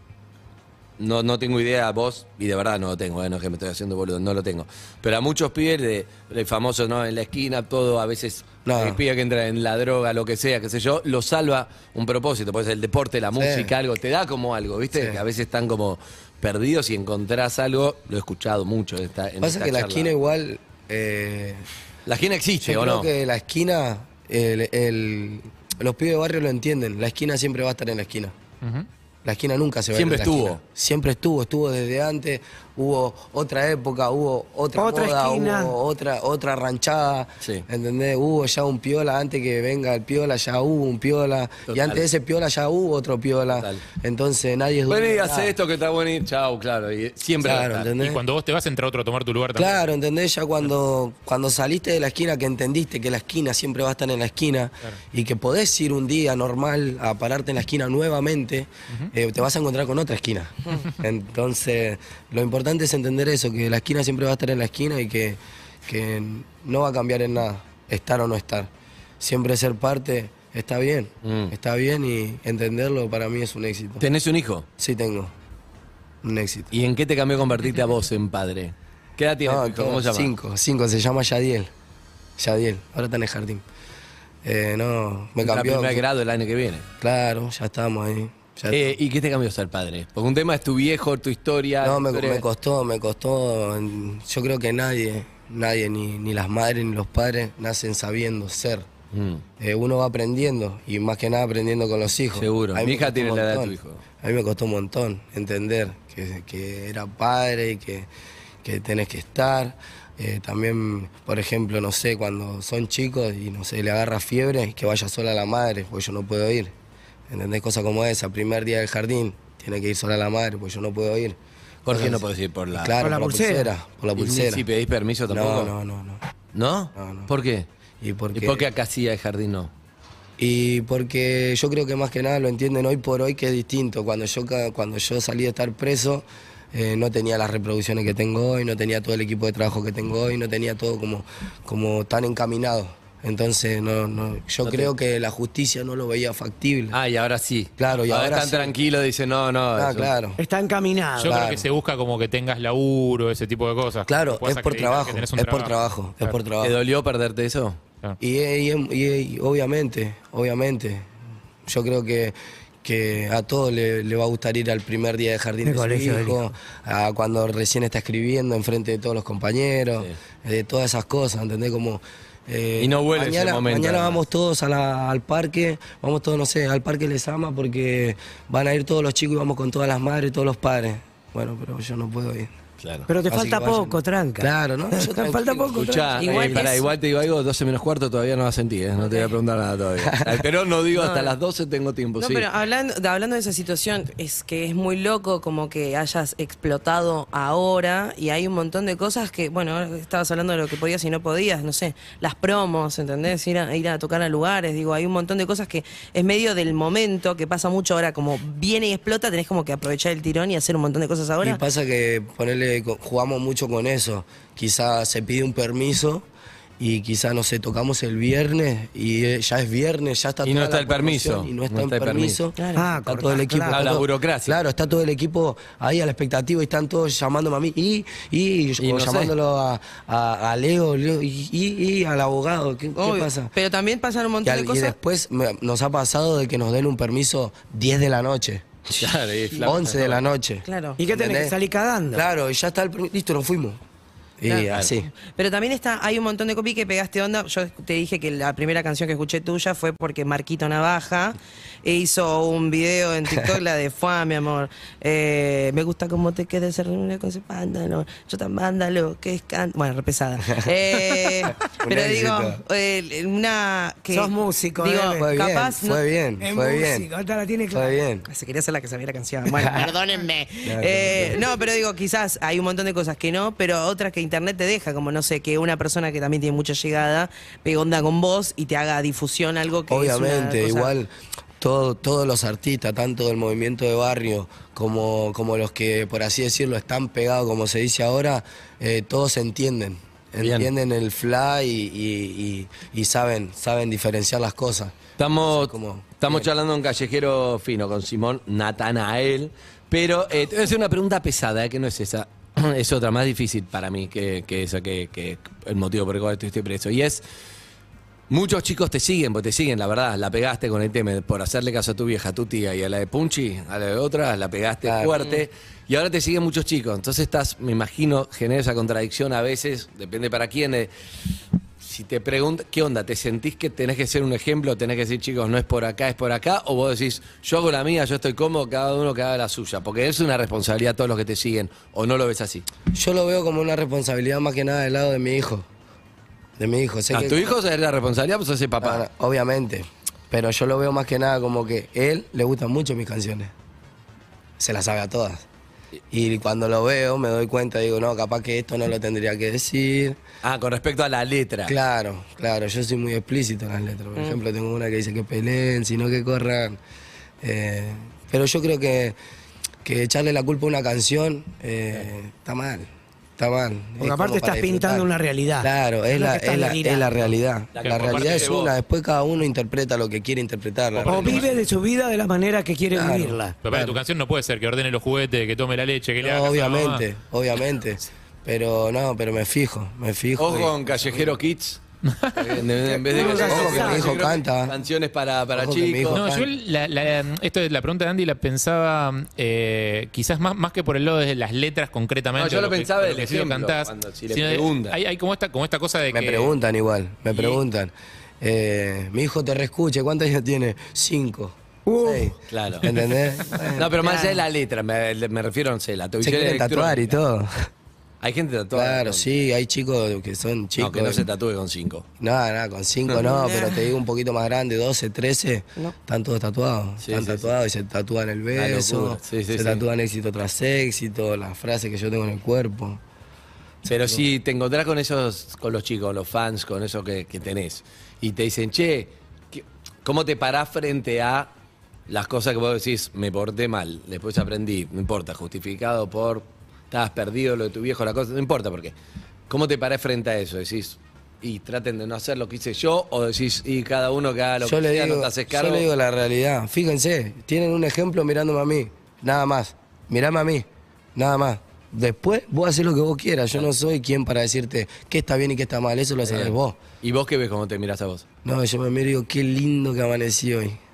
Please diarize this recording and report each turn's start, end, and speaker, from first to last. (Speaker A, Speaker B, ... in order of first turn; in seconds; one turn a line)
Speaker A: 1.0-20.1
Speaker B: 8.6-9.0
Speaker B: 13.3-13.7
Speaker B: 14.9-15.2
Speaker B: 19.4-21.6
Speaker A: 22.1-23.1
Speaker B: 22.6-28.3
Speaker C: 28.6-28.9
Speaker B: 29.2-45.5
Speaker A: 29.9-30.6
Speaker D: 34.8-35.7
Speaker A: 41.7-42.0
Speaker A: 43.5-43.8
Speaker A: 44.9-47.9
Speaker B: 47.4-48.2
Speaker C: 48.0-49.8
Speaker B: 49.5-74.0
Speaker A: 71.2-71.5
Speaker A: 74.0-74.7
Speaker B: 74.8-75.3
Speaker B: 76.2-76.7
Speaker A: 76.7-80.3
Speaker B: 79.4-81.7
Speaker B: 82.4-83.6
Speaker B: 84.4-86.0
Speaker A: 85.4-86.9
Speaker B: 87.0-88.9
Speaker A: 88.7-92.4
Speaker B: 91.8-98.9
Speaker A: 99.1-99.4
Speaker B: 99.6-108.1
Speaker A: 102.3-104.0
Speaker B: 108.6-116.7
Speaker B: 117.3-124.6
Speaker A: 121.8-122.9
Speaker D: 123.0-123.7
Speaker A: 124.2-125.7
Speaker B: 125.3-126.2
Speaker A: 126.5-127.7
Speaker B: 127.0-127.3
Speaker B: 128.0-128.6
Speaker A: 128.3-129.7
Speaker B: 130.4-147.0
Speaker A: 144.6-144.9
Speaker A: 146.9-150.1
Speaker B: 147.8-148.7
Speaker B: 149.7-150.4
Speaker D: 150.4-151.4
Speaker C: 151.2-156.3
Speaker B: 151.3-151.7
Speaker B: 154.1-156.8
Speaker A: 156.6-157.8
Speaker B: 158.2-161.1
Speaker B: 161.7-182.5
Speaker D: 165.6-166.4
Speaker A: 172.8-174.2
Speaker A: 182.8-183.1
Speaker D: 183.1-186.2
Speaker B: 183.3-186.6
Speaker A: 185.7-192.5
Speaker E: 186.2-186.9
Speaker E: 189.0-189.3
Speaker B: 190.0-190.4
Speaker E: 190.9-191.3
Speaker E: 192.2-211.6
Speaker B: 211.4-216.3
Speaker B: 216.8-233.5
Speaker A: 220.4-222.4
Speaker E: 222.6-222.8
Speaker D: 222.7-223.8
Speaker A: 223.7-224.6
Speaker A: 228.8-229.3
Speaker E: 233.0-234.9
Speaker B: 234.4-238.8
Speaker A: 239.0-240.2
Speaker B: 239.6-241.5
Speaker E: 240.6-241.0
Speaker D: 241.0-242.2
Speaker B: 242.1-243.8
Speaker B: 244.4-245.1
Speaker E: 244.4-266.0
Speaker B: 261.8-262.6
Speaker D: 264.1-265.3
Speaker B: 265.2-267.1
Speaker D: 266.4-268.0
Speaker B: 267.7-268.3
Speaker E: 268.3-280.9
Speaker D: 269.7-270.4
Speaker B: 270.6-271.4
Speaker B: 279.9-296.5
Speaker A: 290.4-290.7
Speaker A: 295.2-307.2
Speaker A: 308.3-320.9
Speaker B: 314.8-315.1
Speaker A: 321.8-332.6
Speaker B: 332.9-335.7
Speaker B: 336.6-337.5
Speaker A: 337.1-339.0
Speaker B: 338.8-343.5
Speaker B: 344.6-345.4
Speaker B: 346.1-350.2
Speaker A: 350.4-351.7
Speaker B: 351.6-356.8
Speaker B: 357.4-359.2
Speaker B: 359.8-365.1
Speaker D: 364.0-367.3
Speaker B: 365.6-371.4
Speaker A: 367.7-368.7
Speaker C: 367.8-368.5
Speaker D: 371.1-373.6
Speaker C: 371.1-371.4
Speaker B: 372.9-374.0
Speaker C: 373.6-377.0
Speaker B: 376.2-381.3
Speaker A: 380.4-381.8
Speaker C: 382.1-382.5
Speaker A: 382.3-386.2
Speaker D: 383.1-384.1
Speaker B: 383.2-384.8
Speaker B: 385.5-386.5
Speaker C: 386.1-396.5
Speaker A: 392.4-395.0
Speaker B: 396.1-404.0
Speaker A: 397.3-397.6
Speaker D: 401.9-402.3
Speaker A: 402.5-402.9
Speaker A: 403.7-407.2
Speaker E: 404.0-404.4
Speaker B: 406.2-407.7
Speaker A: 408.2-409.2
Speaker B: 408.7-411.2
Speaker A: 410.8-412.1
Speaker B: 412.2-423.0
Speaker E: 413.2-413.8
Speaker A: 417.0-417.5
Speaker A: 418.5-419.8
Speaker B: 423.8-424.2
Speaker A: 423.9-431.5
Speaker A: 432.1-438.9
Speaker A: 439.5-445.9
Speaker B: 444.6-456.8
Speaker A: 456.2-458.2
Speaker B: 458.4-460.8